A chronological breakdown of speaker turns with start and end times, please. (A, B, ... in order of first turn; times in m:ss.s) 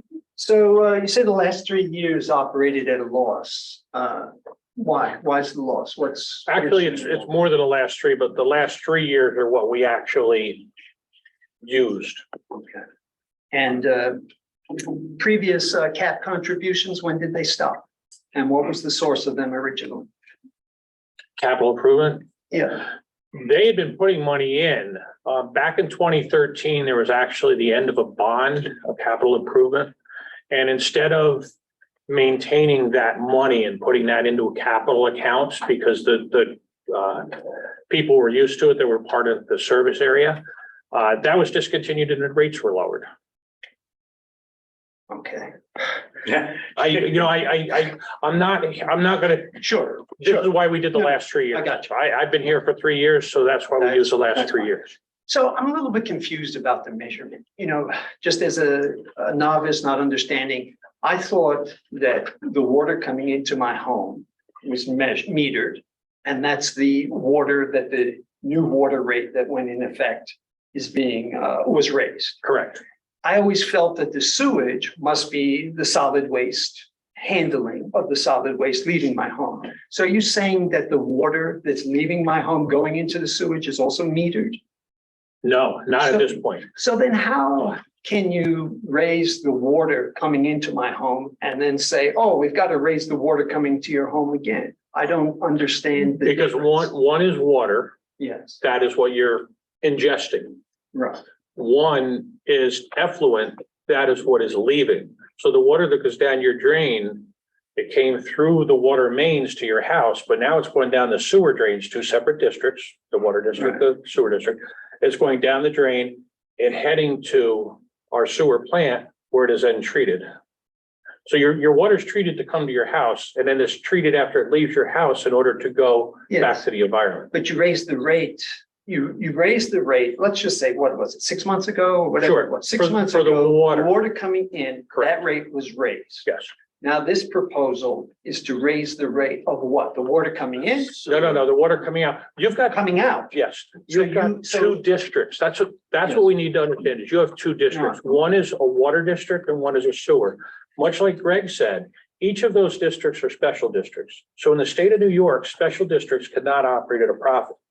0:00.4-0:07.3 A
0:06.5-0:10.7 B
0:11.6-0:12.2 B
0:13.5-0:20.1 A
0:21.4-0:22.3 B
0:22.5-0:22.9 A
0:23.3-0:29.9 B
0:30.5-0:31.5 B
0:32.1-0:37.4 B
0:37.9-0:40.4 B
0:40.9-0:43.1 B
0:45.1-0:45.6 A
0:46.2-0:54.9 B
0:49.6-0:51.8 A
0:53.8-1:12.4 A
1:12.4-1:12.8 B
1:13.2-1:24.6 A
1:25.4-1:26.7 B
1:26.0-1:36.9 A
1:36.2-1:38.0 B
1:38.2-1:38.6 A
1:38.6-1:40.6 B
1:40.9-1:41.2 A
1:41.6-2:00.2 B
2:01.2-2:07.3 B
2:06.3-2:06.6 A
2:07.3-2:16.3 A
2:12.2-2:13.9 B
2:14.9-2:15.2 B
2:16.8-2:21.4 A
2:21.0-2:37.6 B
2:22.7-2:23.3 A
2:23.8-2:24.8 A
2:27.7-2:28.0 A